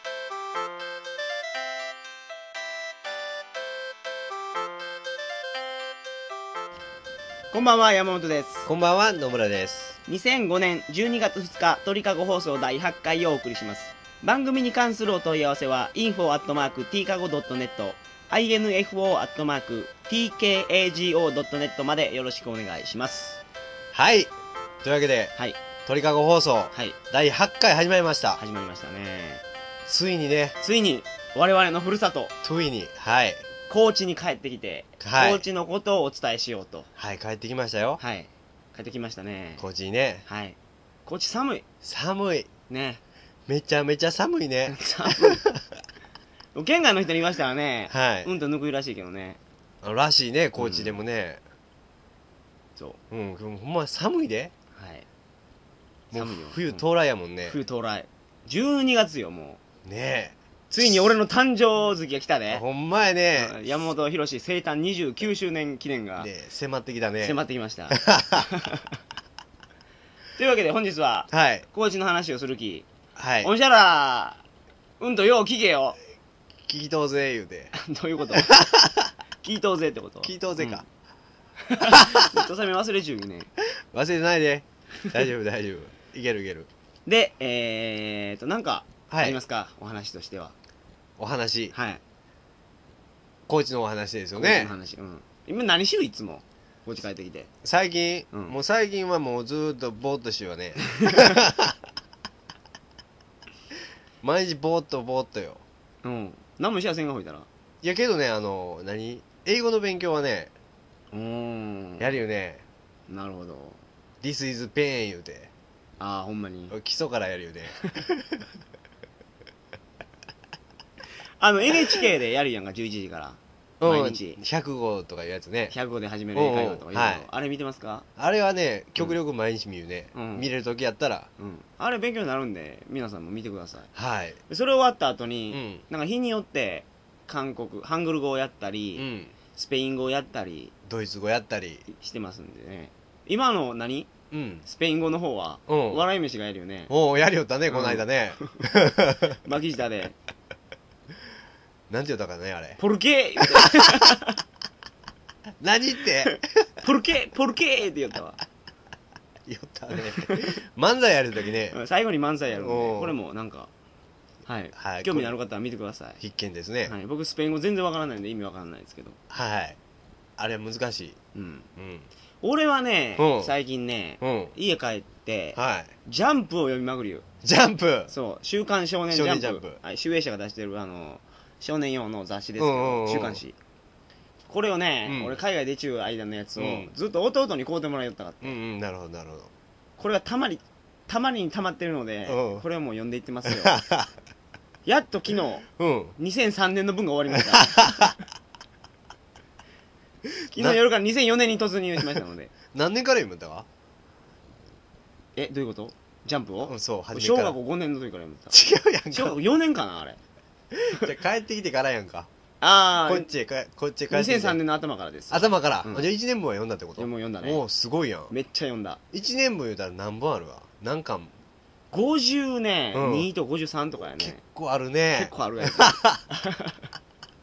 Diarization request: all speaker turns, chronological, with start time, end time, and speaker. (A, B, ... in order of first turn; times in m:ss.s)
0:07.5-0:08.7 A
0:08.6-0:10.0 B
0:10.1-0:23.4 A
0:23.9-0:24.3 B
0:24.8-0:25.3 B
0:25.8-0:28.4 B
0:28.4-0:29.4 A
0:29.9-0:30.6 B
0:30.6-0:32.3 A
0:32.4-0:33.4 B
0:33.7-0:36.9 A
0:35.0-0:35.4 B
0:37.0-0:38.0 B
0:38.0-0:39.6 A
0:39.6-0:40.2 B
0:40.3-0:41.6 A
0:41.8-0:42.5 B
0:42.7-0:43.0 A
0:43.5-0:45.6 B
0:44.7-0:45.4 A
0:46.6-0:49.4 A
0:47.9-0:48.3 B
0:49.8-0:51.4 B
0:50.6-0:51.0 A
0:53.1-0:54.5 B
0:54.7-0:55.1 A
0:56.1-0:57.6 B
0:56.1-0:56.9 A
0:57.5-0:59.6 A
0:59.8-1:01.2 B
1:00.7-1:02.6 A
1:02.5-1:03.6 B
1:03.4-1:06.3 A
1:06.2-1:07.4 B
1:07.2-1:09.0 A
1:07.9-1:08.5 B
1:10.4-1:12.9 A
1:11.3-1:11.7 B
1:13.2-1:13.5 B
1:13.4-1:14.4 A
1:15.0-1:16.0 A
1:16.7-1:17.7 B
1:17.8-1:18.6 A
1:18.3-1:19.1 B
1:19.4-1:20.8 A
1:20.2-1:20.8 B
1:21.6-1:23.5 A
1:21.8-1:22.5 B
1:23.9-1:26.7 B
1:27.1-1:30.6 A
1:29.1-1:29.4 B
1:31.2-1:31.7 B
1:31.7-1:32.0 A
1:33.5-1:34.7 B
1:34.4-1:37.5 A
1:37.6-1:41.8 B
1:38.3-1:38.6 A
1:40.9-1:41.4 A
1:44.2-1:45.6 B
1:46.0-1:47.5 A
1:47.8-1:50.5 B
1:51.1-1:52.1 A
1:52.0-1:52.6 B
1:53.1-1:53.8 A
1:54.2-1:55.5 B
1:56.0-1:56.8 A
1:56.7-1:58.5 B
2:01.4-2:04.4 A
2:03.8-2:05.8 B
2:05.7-2:08.1 A
2:06.3-2:07.3 B
2:08.2-2:11.3 B
2:10.1-2:10.5 A
2:11.4-2:13.9 A
2:14.0-2:14.4 B
2:14.5-2:20.7 A
2:15.5-2:15.8 B
2:19.0-2:19.3 B
2:20.9-2:21.9 B
2:21.9-2:24.1 A
2:24.3-2:24.6 B
2:24.6-2:26.9 A
2:25.7-2:26.0 B
2:26.9-2:29.4 B
2:27.7-2:28.6 A
2:29.4-2:30.2 A
2:31.9-2:32.8 B
2:32.8-2:34.4 A
2:33.4-2:34.1 B
2:35.6-2:36.4 B
2:36.2-2:38.4 A
2:39.5-2:41.8 B
2:39.9-2:40.6 A
2:41.7-2:43.7 A
2:42.5-2:43.2 B
2:44.5-2:46.2 A
2:44.8-2:45.4 B
2:46.2-2:46.9 B
2:46.9-2:49.2 A
2:49.3-2:49.8 B
2:50.4-2:51.2 B
2:51.3-2:51.7 A
2:51.8-2:52.1 B
2:52.4-2:57.3 A
2:53.2-2:53.5 B
2:54.2-2:54.5 B
2:55.6-2:55.9 B
2:57.4-2:58.1 B
2:58.1-3:03.6 A
2:59.1-2:59.8 B
3:02.6-3:03.4 B
3:04.5-3:08.6 A
3:05.1-3:05.4 B
3:06.6-3:06.9 B
3:08.4-3:09.5 B
3:10.0-3:13.8 A
3:12.3-3:12.6 B
3:13.5-3:14.1 B
3:14.9-3:15.7 A
3:15.8-3:16.2 B
3:16.2-3:18.1 A
3:17.3-3:18.2 B
3:20.5-3:20.8 B
3:20.5-3:22.5 A
3:22.7-3:23.7 B
3:25.4-3:28.6 A
3:26.7-3:27.6 B
3:28.5-3:29.4 B
3:29.1-3:30.2 A
3:30.9-3:32.3 B
3:32.6-3:33.3 A
3:33.0-3:34.6 B
3:34.1-3:36.1 A
3:35.3-3:38.3 B
3:37.0-3:37.6 A
3:38.3-3:39.0 A
3:39.1-3:41.3 B
3:41.9-3:44.4 A
3:42.9-3:43.3 B
3:44.0-3:46.2 B
3:45.2-3:46.8 A